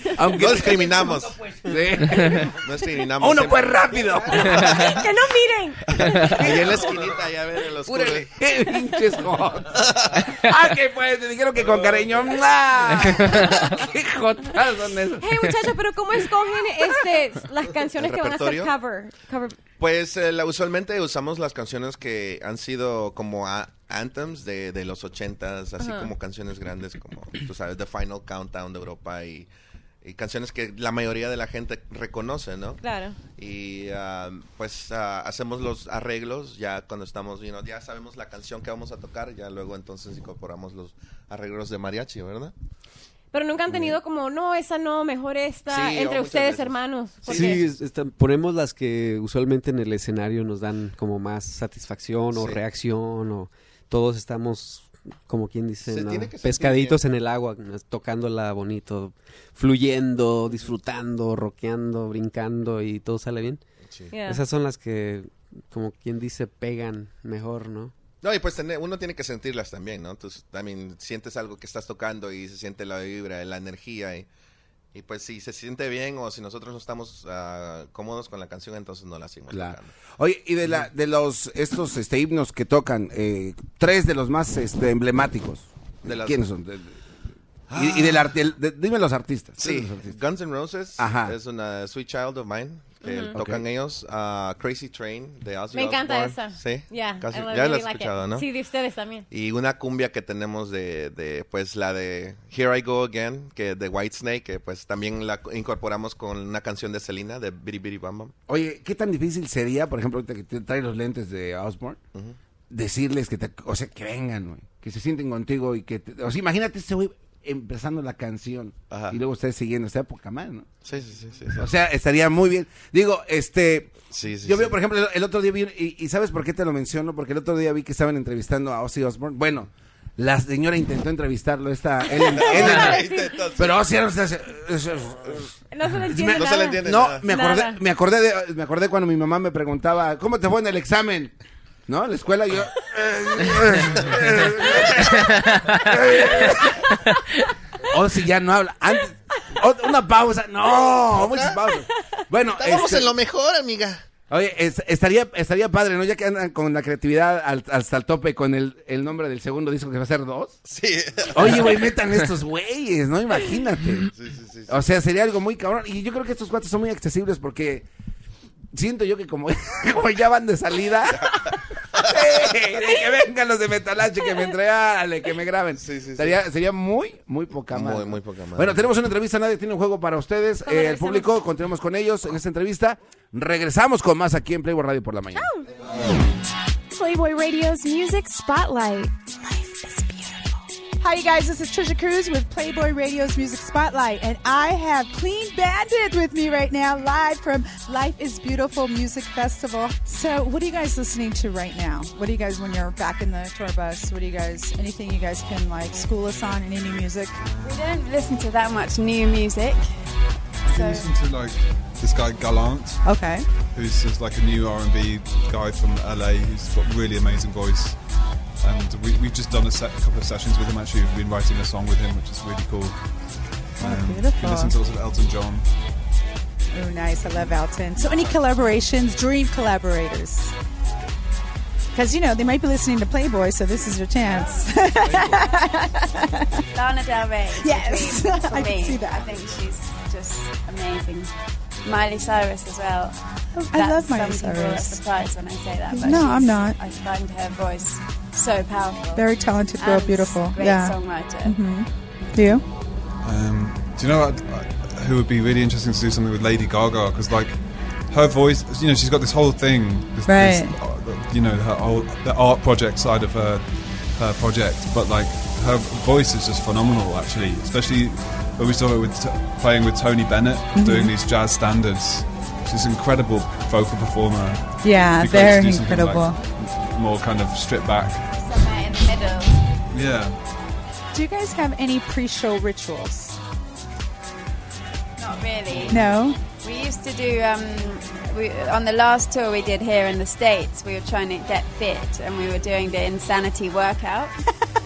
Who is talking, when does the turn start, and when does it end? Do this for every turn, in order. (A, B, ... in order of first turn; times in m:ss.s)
0:00.1-0:02.5 A
0:00.3-0:01.4 B
0:02.4-0:04.1 B
0:03.2-0:05.0 A
0:04.4-0:06.3 C
0:06.0-0:08.3 B
0:06.0-0:07.1 A
0:07.8-0:15.7 A
0:09.7-0:10.4 B
0:11.6-0:12.4 B
0:15.2-0:19.6 C
0:18.0-0:18.7 B
0:19.8-0:29.5 B
0:25.8-0:26.1 C
0:30.0-0:32.8 B
0:32.8-0:33.2 C
0:33.4-0:42.5 B
0:43.3-0:47.6 C
0:43.7-0:44.0 B
0:45.7-0:47.7 B
0:47.2-1:03.6 D
0:52.3-0:52.6 B
0:55.9-0:57.0 B
1:04.1-1:04.4 C
1:04.2-1:07.9 D
1:08.2-1:14.3 B
1:14.9-1:19.9 B
1:19.5-1:27.0 A
1:26.0-1:26.4 B
1:27.7-1:28.3 B
1:27.7-1:30.1 A
1:29.6-1:38.4 B
1:31.0-1:31.3 A
1:33.0-1:33.4 C
1:33.3-1:33.6 A
1:35.7-1:39.2 C
1:39.3-1:48.3 B
1:48.5-1:52.0 A
1:52.7-2:00.7 A
1:58.9-1:59.2 B
2:00.8-2:01.7 B
2:01.6-2:13.0 A
2:04.1-2:04.8 B
2:12.2-2:13.5 C
2:12.3-2:13.8 B
2:13.6-2:15.5 A
2:15.7-2:17.8 C
2:16.1-2:21.3 A
2:16.2-2:17.2 B
2:21.9-2:27.0 A
2:27.9-2:33.1 A
2:30.8-2:31.6 B
2:32.6-2:34.0 B
2:34.3-2:40.6 A
2:40.6-2:41.8 B
2:41.3-2:44.1 A
2:44.1-2:44.8 B
2:44.7-2:47.9 A
2:48.7-3:05.5 A
2:55.8-2:56.4 B
2:57.7-2:58.8 B
3:00.6-3:01.3 C
3:06.9-3:10.2 E
3:11.0-3:27.4 E
3:27.4-3:27.7 F
3:27.6-3:29.8 G
3:30.6-3:33.0 F
3:30.6-3:31.1 G
3:33.0-3:33.4 E
3:33.7-3:38.0 F
3:38.6-3:43.0 F
3:43.8-3:44.7 E
3:43.8-3:45.7 F
3:46.7-3:50.5 E
3:51.9-3:56.6 E
3:56.7-4:01.3 G
3:57.6-3:59.3 E
4:01.8-4:03.2 G
4:03.6-4:05.0 E
4:03.7-4:11.6 G
4:05.9-4:06.8 E
4:09.2-4:12.6 E
4:13.2-4:38.3 F
4:20.2-4:20.8 E
4:30.7-4:31.1 E
4:34.8-4:36.4 E
4:38.3-4:39.7 G
4:39.9-4:40.4 F
4:41.1-4:43.4 E
4:45.2-4:54.3 G
4:45.9-4:46.4 E